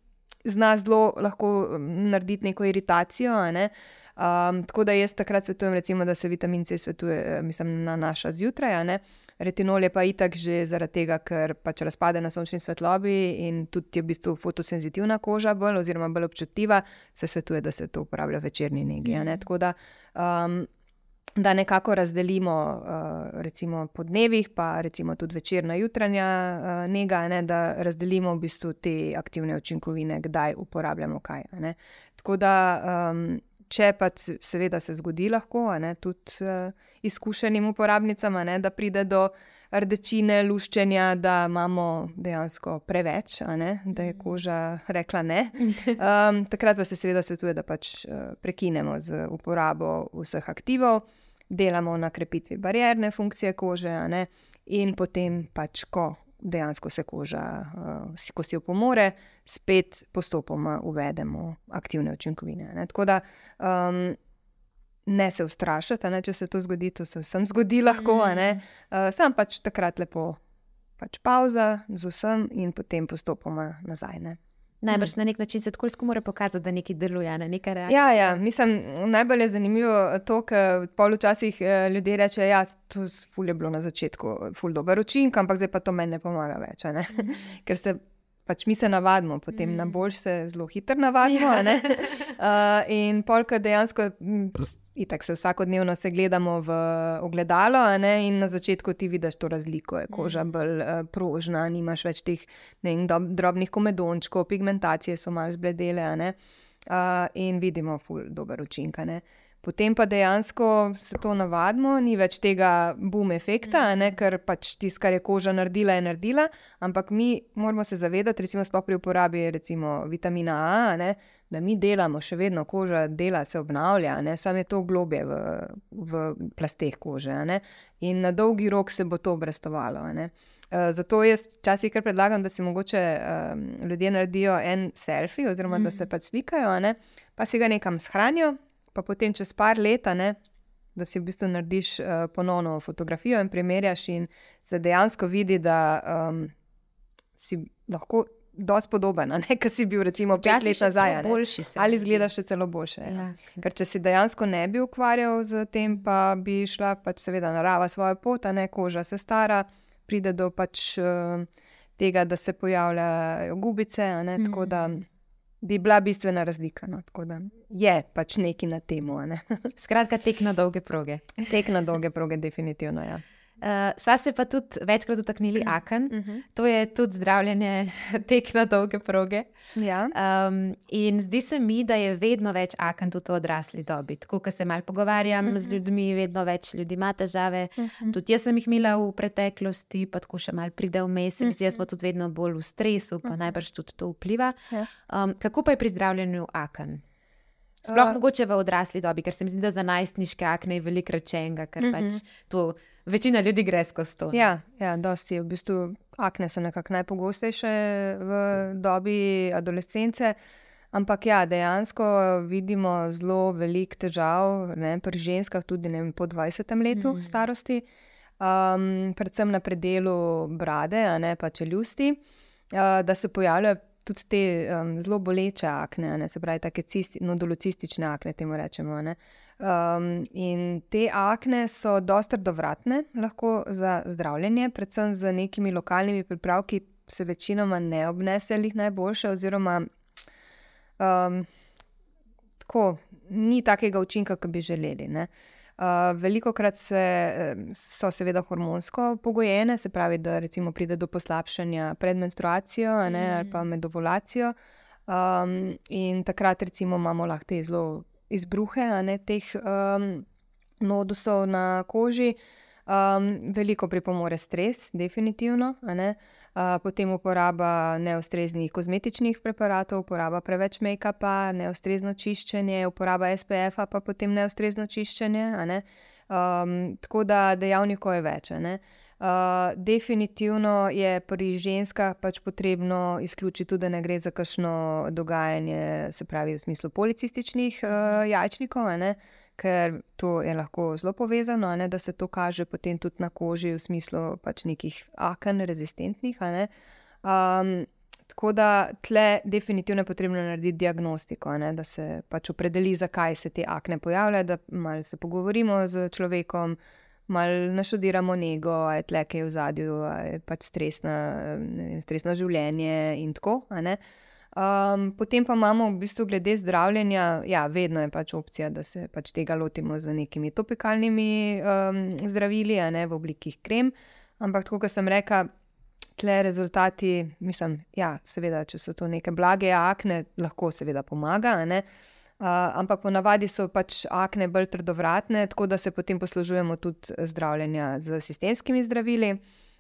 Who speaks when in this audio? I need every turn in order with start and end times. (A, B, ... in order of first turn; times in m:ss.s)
0:00.4-0:20.7 A
0:19.0-0:19.4 B
0:21.4-1:04.2 A
0:45.7-0:45.9 B
1:05.1-1:10.4 A
1:08.1-1:08.6 B
1:11.0-1:14.4 A
1:14.8-1:18.4 B
1:17.9-1:46.4 A
1:27.1-1:27.5 B
1:29.6-1:30.0 B
1:40.1-1:40.4 B
1:46.9-2:20.4 A
2:15.7-2:16.1 B
2:20.9-2:26.5 A
2:27.4-2:45.0 A
2:30.3-2:32.3 B
2:33.1-2:33.6 B
2:44.4-2:44.7 B
2:45.6-2:49.7 A
2:49.8-2:51.4 B
2:51.5-2:53.2 A
2:53.6-2:59.5 B
2:56.1-2:56.4 A
2:59.8-3:00.1 A
3:00.1-3:17.0 B
3:05.4-3:05.8 A
3:07.8-3:08.2 A
3:17.8-3:18.2 A
3:17.8-3:24.4 B
3:21.8-3:22.2 A
3:24.3-3:30.4 A
3:30.9-3:37.8 A
3:36.9-3:37.3 B
3:38.4-3:42.2 A
3:42.7-3:59.9 A
4:01.0-4:01.5 A
4:02.6-4:14.5 A
4:13.1-4:13.6 B
4:15.1-4:20.3 A
4:20.8-4:56.7 A
4:57.2-5:06.8 A
5:07.3-5:14.0 A
5:14.5-5:25.5 A
5:26.2-5:31.8 A
5:32.4-5:39.4 A